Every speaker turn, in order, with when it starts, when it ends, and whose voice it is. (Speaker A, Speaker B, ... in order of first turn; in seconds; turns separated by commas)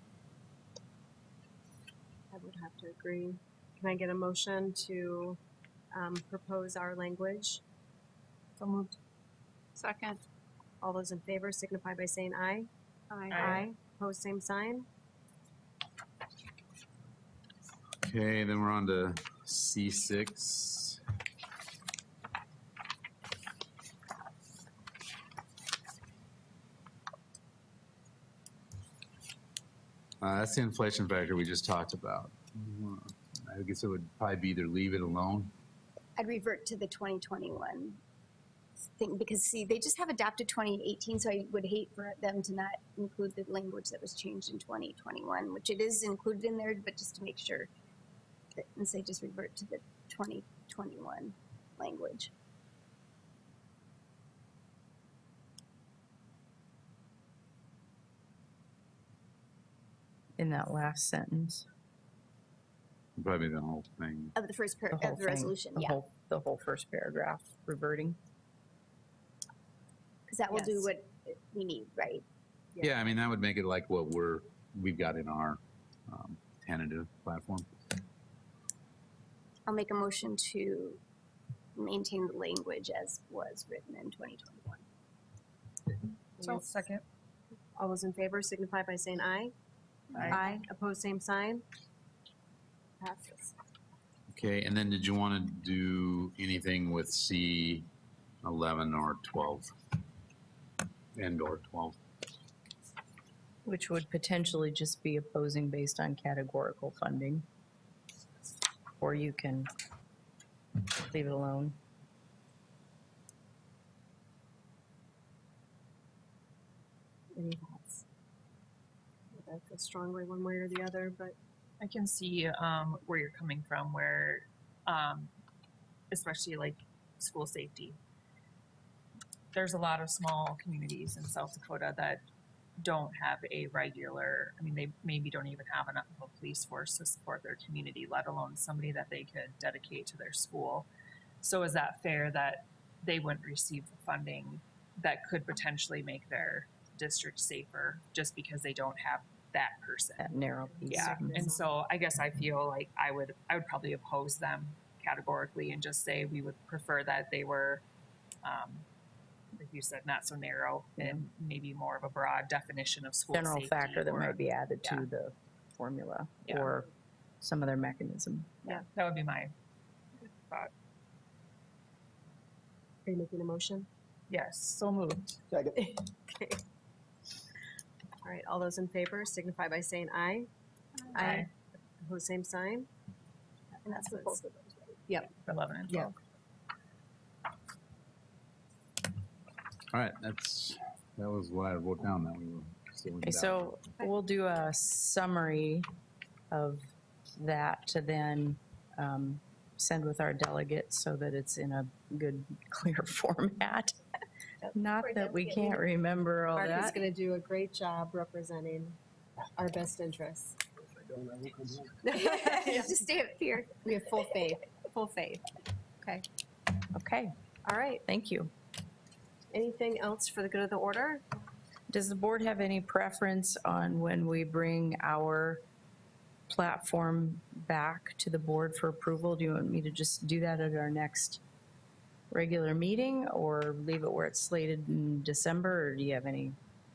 Speaker A: 2.3-5.4, Speaker A: 5.9-7.6, Speaker B: 8.6-8.9, Speaker B: 9.8-10.2, Speaker A: 10.8-14.8, Speaker B: 13.3-13.7, Speaker C: 18.0-21.0, Speaker C: 30.2-35.5, Speaker D: 36.2-38.0, Speaker D: 39.0-47.7, Speaker D: 48.5-52.3, Speaker E: 60.4-61.6, Speaker C: 63.2-64.3, Speaker D: 64.3-66.0, Speaker E: 64.9-68.2, Speaker D: 70.3-72.2, Speaker C: 72.8-77.7, Speaker D: 79.7-81.0, Speaker D: 81.8-84.8, Speaker A: 86.4-86.7, Speaker B: 86.4-87.0, Speaker A: 87.8-89.5, Speaker B: 90.1-90.5, Speaker A: 90.2-91.6, Speaker A: 93.0-93.5, Speaker C: 94.3-97.9, Speaker C: 98.4-99.7, Speaker C: 101.1-102.0, Speaker E: 103.6-107.5, Speaker E: 109.0-109.7, Speaker E: 110.8-111.8, Speaker A: 117.3-118.0, Speaker A: 119.3-121.3, Speaker B: 121.8-125.3, Speaker B: 126.1-128.0, Speaker B: 129.5-132.2, Speaker B: 132.8-140.9, Speaker B: 141.4-150.3, Speaker E: 150.2-151.5, Speaker A: 150.8-151.6, Speaker B: 150.9-157.8, Speaker B: 158.4-158.8, Speaker B: 159.5-165.1, Speaker E: 161.0-161.2, Speaker E: 163.3-166.9, Speaker B: 166.4-166.7, Speaker E: 167.4-168.6, Speaker B: 168.7-169.5, Speaker B: 170.2-170.7, Speaker A: 173.0-173.9, Speaker B: 174.3-175.4, Speaker A: 175.7-176.6, Speaker A: 178.2-180.5, Speaker A: 181.1-181.5, Speaker B: 181.2-181.5, Speaker A: 182.0-182.9, Speaker D: 183.8-185.1, Speaker A: 184.1-184.4, Speaker B: 185.4-186.2, Speaker C: 189.9-193.7, Speaker E: 193.2-195.9, Speaker E: 196.5-196.8, Speaker E: 197.3-203.9, Speaker D: 204.6-205.8, Speaker E: 204.7-207.0, Speaker A: 206.6-209.0, Speaker A: 209.6-210.6, Speaker A: 212.0-213.0, Speaker D: 212.1-213.8, Speaker A: 213.7-215.4, Speaker E: 216.9-217.3, Speaker A: 217.6-218.0, Speaker E: 218.1-218.5, Speaker A: 219.5-221.2, Speaker E: 221.9-225.6, Speaker E: 226.5-231.4, Speaker E: 232.3-236.6